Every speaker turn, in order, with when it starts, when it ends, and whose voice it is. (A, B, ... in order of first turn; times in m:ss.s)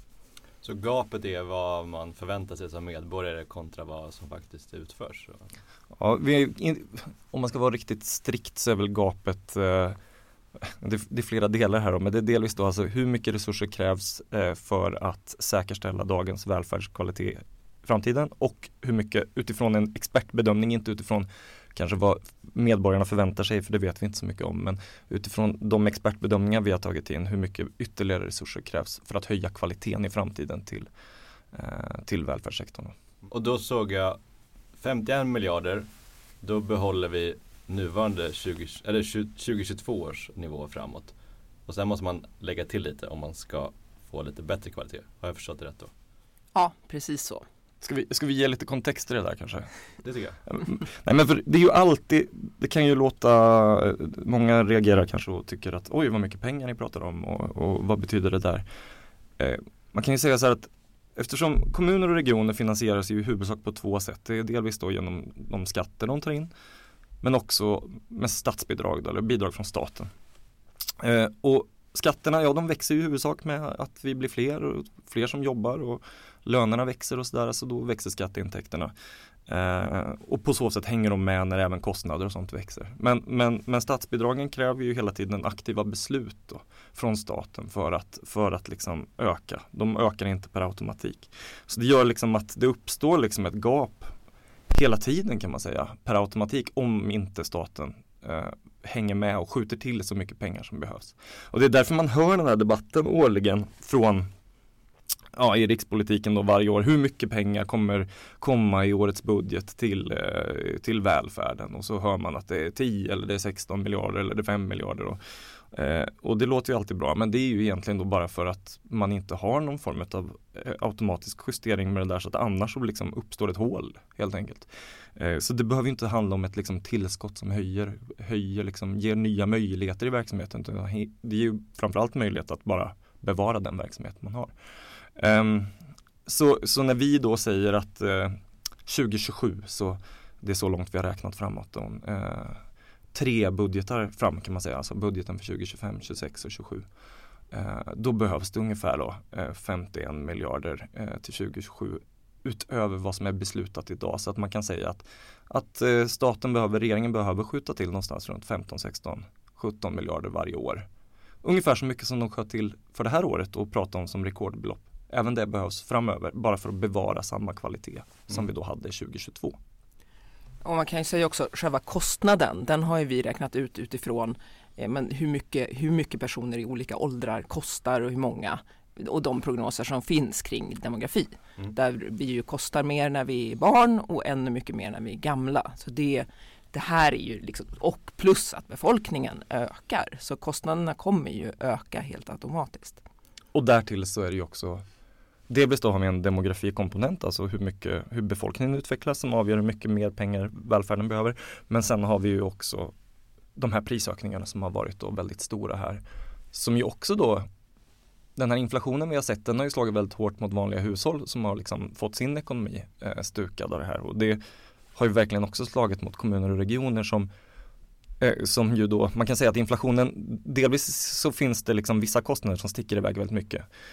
0:00.6-0:05.5 A
0:05.9-0:10.0 B
0:10.6-0:30.9 B
0:31.5-0:33.0 B
0:33.3-0:34.2 A
0:34.8-0:35.9 A
0:36.4-0:41.1 A
0:41.7-0:45.9 A
0:46.5-0:47.5 C
0:47.8-0:49.7 B
0:50.0-0:50.4 A
0:50.5-0:58.6 B
0:59.4-1:06.5 B
1:07.2-1:10.1 B
1:11.0-1:18.9 B
1:19.5-1:34.1 B
1:34.7-1:44.3 B
1:45.3-1:55.2 B
1:55.7-2:14.5 B
2:15.2-2:15.8 B
2:16.3-2:26.9 B
2:27.5-2:40.9 B
2:41.4-2:49.6 B
2:50.6-3:13.0 C
3:13.5-3:14.8 B
3:15.5-3:22.9 B
3:23.6-3:26.0 B
3:26.5-3:27.5 B
3:28.4-3:34.4 B
3:35.0-3:37.3 B
3:38.2-3:43.7 B